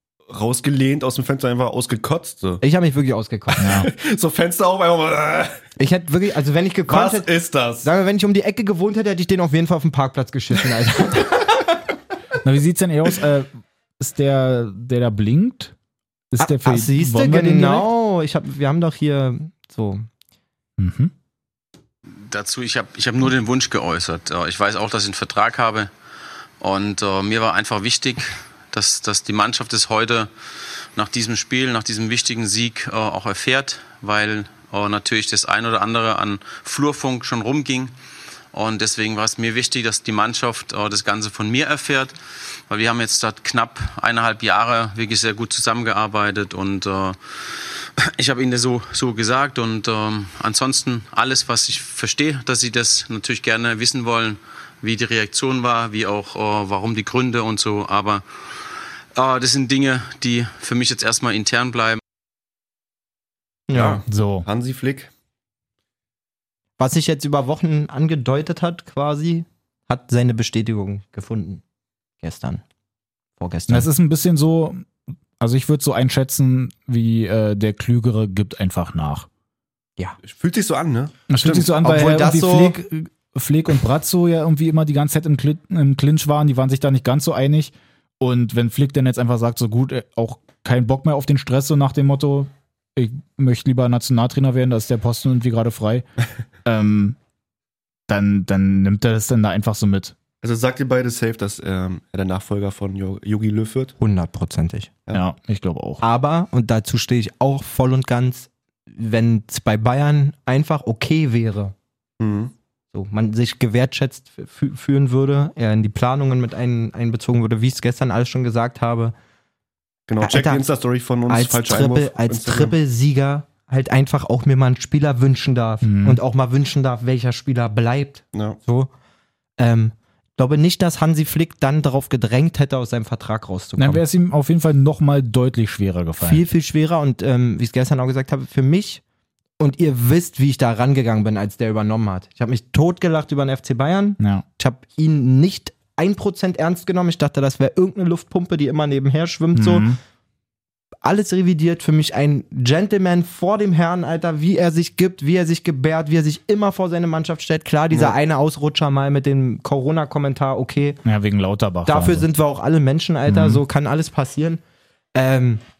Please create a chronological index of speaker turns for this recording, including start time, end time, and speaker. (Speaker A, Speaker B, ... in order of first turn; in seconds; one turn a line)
Speaker A: 0.3-2.6
Speaker B: 2.6-3.7
Speaker A: 3.5-5.6
Speaker C: 3.6-3.9
Speaker B: 5.8-11.7
Speaker A: 6.9-7.9
Speaker C: 12.4-15.7
Speaker C: 16.3-17.9
Speaker B: 16.4-20.1
Speaker C: 20.8-21.1
Speaker D: 22.2-25.9
Speaker D: 26.6-30.3
Speaker D: 30.9-37.9
Speaker D: 38.5-42.1
Speaker D: 42.7-47.2
Speaker D: 48.0-58.2
Speaker D: 59.1-62.0
Speaker B: 63.7-64.0
Speaker A: 63.7-65.1
Speaker C: 64.1-64.5
Speaker B: 66.8-71.6
Speaker B: 72.2-72.6
Speaker B: 73.4-73.9
Speaker C: 73.7-74.9
Speaker C: 75.4-79.3
Speaker A: 80.2-81.7
Speaker C: 81.3-96.0
Speaker B: 81.8-82.8
Speaker C: 96.6-97.2
Speaker C: 98.1-100.2
Speaker A: 100.4-103.9
Speaker B: 104.0-104.9
Speaker C: 105.1-106.0
Speaker B: 106.0-111.7
Speaker A: 112.2-112.5
Speaker B: 112.9-119.1
Speaker A: 120.1-122.7
Speaker B: 120.2-120.7
Speaker B: 121.3-128.9
Speaker C: 125.8-126.2
Speaker B: 129.6-134.0
Speaker C: 133.8-136.4
Speaker B: 136.2-139.0
Speaker B: 139.6-149.9
Speaker C: 144.2-144.4
Speaker C: 149.5-150.0
Speaker B: 151.0-161.0
Speaker C: 161.0-162.3
Speaker B: 161.8-164.6
Speaker C: 163.3-163.6
Speaker B: 165.1-165.6